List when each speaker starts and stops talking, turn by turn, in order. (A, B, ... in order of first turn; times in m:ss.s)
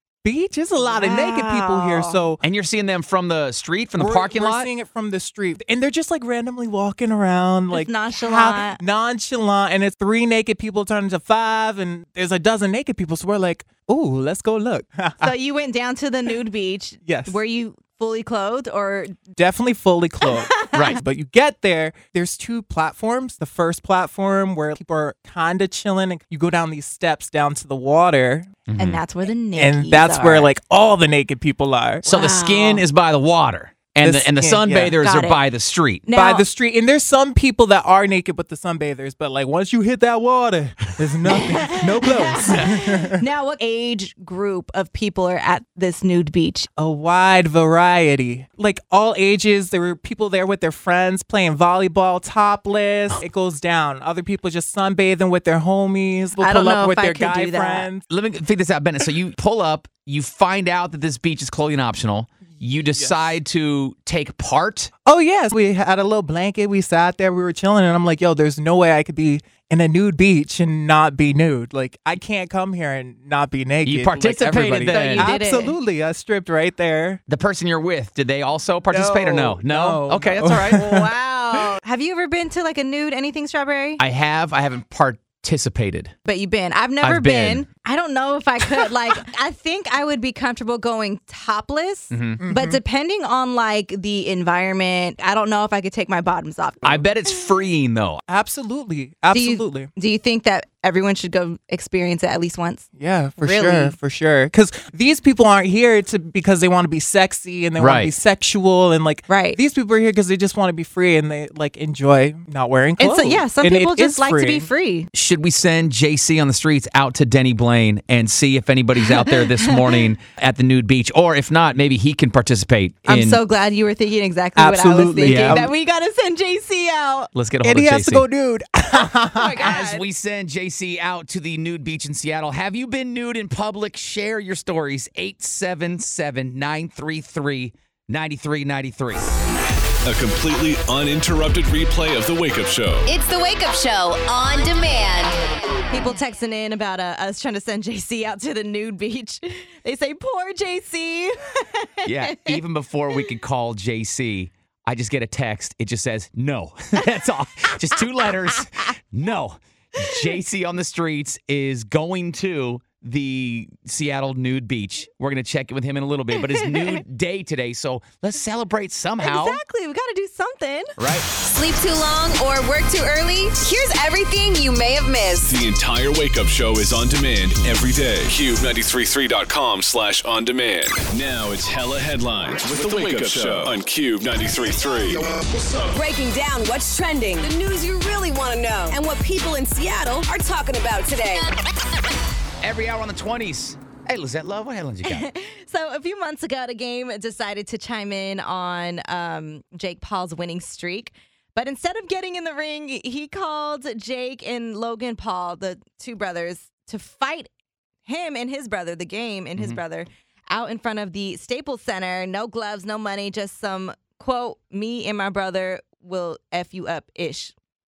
0:00.2-0:02.4 A
0:00.8-0:02.2 B
0:02.4-0:04.7 C
0:04.0-0:15.3 A
0:07.7-0:08.8 B
0:15.2-0:19.2 B
0:17.1-0:17.4 A
0:19.4-0:28.5 A
0:20.5-0:21.0 B
0:20.7-0:21.0 C
0:28.7-0:29.0 C
0:28.8-0:30.5 B
0:29.6-0:32.0 A
0:32.0-0:36.0 C
0:32.1-0:32.8 B
0:34.0-0:35.0 A
0:35.0-0:35.4 B
0:36.1-0:36.4 B
0:36.1-0:43.2 A
0:41.3-0:46.7 B
0:46.8-0:58.0 A
0:56.4-0:57.9 B
0:58.1-1:04.9 C
1:02.4-1:03.2 A
1:05.0-1:17.2 A
1:13.8-1:15.3 C
1:14.9-1:15.8 B
1:17.3-1:20.8 C
1:18.9-1:21.1 A
1:20.7-1:24.0 B
1:24.0-1:26.1 C
1:26.2-1:37.1 B
1:27.0-1:27.7 C
1:32.1-1:32.4 C
1:32.4-1:32.8 A
1:36.8-1:38.2 C
1:38.3-1:39.9 A
1:39.3-1:42.9 B
1:43.0-1:54.7 A
1:43.4-1:43.9 B
1:47.8-1:48.1 C
1:49.3-1:49.6 B
1:53.0-1:55.1 B
1:55.1-2:03.4 C
1:59.0-2:00.0 B
2:03.1-2:07.3 B
2:04.6-2:05.7 A
2:05.2-2:05.7 C
2:07.3-2:08.3 C
2:07.6-2:09.7 A
2:09.0-2:10.0 B
2:09.6-2:19.3 C
2:20.0-2:23.1 D
2:23.1-2:25.4 E
2:25.9-2:32.6 B
2:32.0-2:49.6 C
2:46.5-2:47.0 B
2:49.2-2:50.9 B
2:51.0-2:51.3 C
2:51.4-2:55.5 E
2:55.4-3:05.3 D
3:05.7-3:11.5 E
3:12.6-3:15.3 C
3:15.0-3:27.5 B
3:28.1-3:37.5 B